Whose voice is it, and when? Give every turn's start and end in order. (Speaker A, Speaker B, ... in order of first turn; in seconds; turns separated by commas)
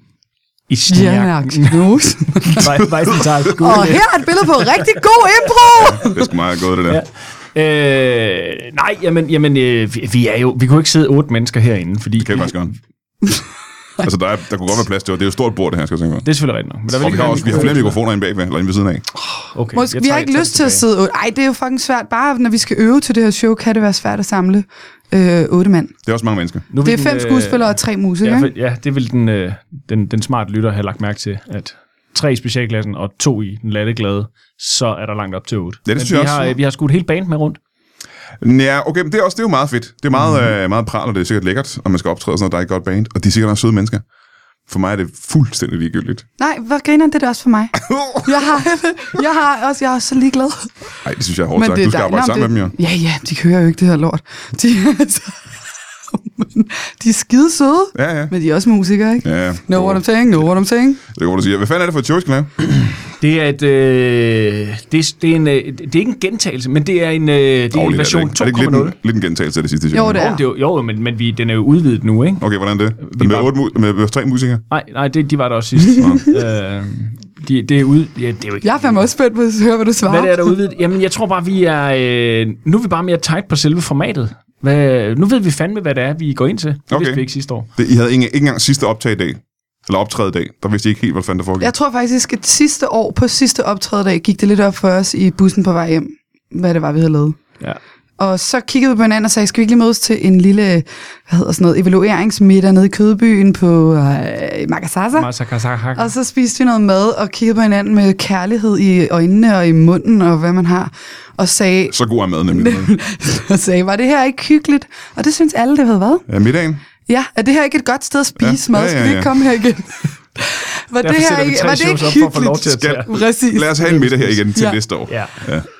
Speaker A: 0.7-1.9, Speaker B: 0.9-2.7, Speaker A: 2.5-4.3, Speaker B: 3.6-6.2, Speaker C: 5.8-7.0, Speaker A: 6.9-12.7, Speaker C: 12.2-12.7, Speaker C: 14.0-16.3, Speaker A: 16.2-18.0, Speaker C: 16.9-19.1, Speaker A: 19.5-20.9, Speaker B: 19.7-25.9, Speaker C: 26.1-26.7, Speaker A: 26.7-37.6, Speaker B: 26.8-28.5, Speaker C: 35.9-36.5, Speaker C: 38.4-44.0, Speaker C: 44.7-46.3, Speaker B: 46.4-50.7, Speaker C: 47.8-48.3, Speaker C: 51.0-52.8, Speaker B: 51.6-55.5, Speaker B: 56.1-61.0, Speaker C: 58.0-58.3, Speaker C: 59.2-60.0, Speaker C: 61.0-62.5, Speaker A: 63.2-69.0, Speaker C: 67.7-70.2, Speaker B: 69.9-70.4, Speaker A: 70.2-72.4, Speaker C: 72.4-74.6, Speaker A: 73.0-73.5, Speaker A: 74.7-79.0, Speaker C: 76.0-76.2, Speaker B: 78.6-80.6, Speaker A: 80.0-87.7, Speaker C: 86.9-87.2, Speaker C: 87.8-91.7, Speaker B: 91.6-97.4, Speaker B: 98.2-105.3, Speaker A: 105.2-106.1, Speaker B: 106.0-112.0, Speaker C: 111.9-112.9, Speaker B: 112.5-116.3, Speaker C: 116.3-116.8, Speaker B: 117.1-123.9, Speaker C: 118.4-119.4, Speaker A: 121.0-123.2, Speaker C: 122.7-125.7, Speaker A: 123.8-124.4, Speaker B: 124.5-124.8, Speaker A: 125.1-125.4